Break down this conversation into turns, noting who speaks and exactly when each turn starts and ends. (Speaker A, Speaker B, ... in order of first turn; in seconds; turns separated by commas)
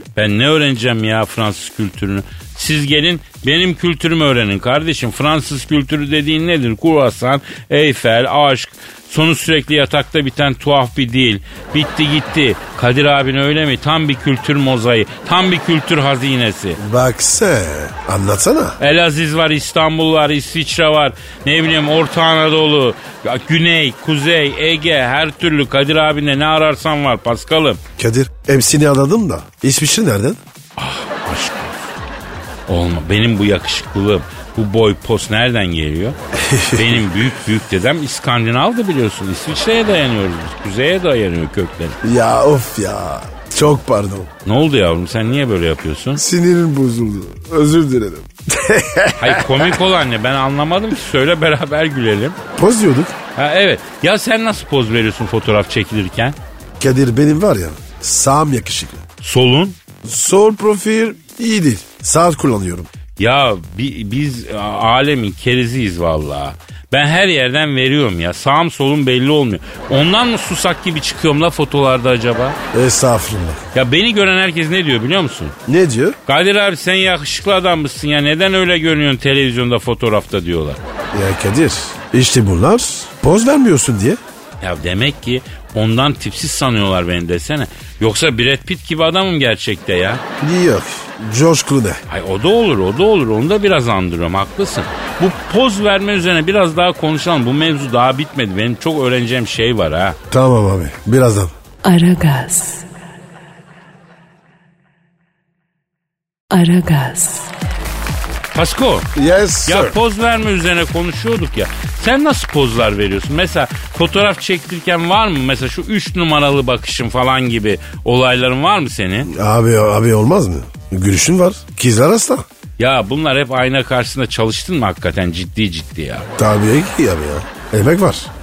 Speaker A: 0.1-16.8, Speaker B: 16.8-18.8, Speaker A: 18.8-27.8, Speaker B: 28.0-30.4, Speaker A: 30.8-31.9, Speaker A: 32.7-36.2, Speaker B: 36.3-37.3, Speaker A: 36.7-42.0, Speaker B: 42.0-44.3, Speaker A: 44.5-46.2, Speaker B: 46.1-49.8, Speaker A: 49.2-52.4, Speaker B: 52.5-53.1, Speaker A: 53.3-56.4, Speaker B: 56.8-59.0, Speaker A: 59.2-59.8, Speaker B: 60.0-62.9, Speaker A: 63.2-72.6, Speaker B: 72.7-73.6, Speaker A: 73.7-75.5, Speaker B: 75.7-76.2, Speaker A: 76.2-80.8, Speaker B: 81.1-84.2, Speaker A: 84.6-90.2, Speaker B: 90.4-92.0, Speaker A: 92.1-100.2, Speaker B: 100.3-101.5, Speaker C: 101.8-102.9, Speaker C: 106.5-107.5, Speaker A: 108.5-109.1, Speaker B: 109.1-110.0, Speaker A: 109.7-119.3, Speaker B: 119.3-122.5, Speaker A: 122.8-126.3, Speaker B: 126.4-128.3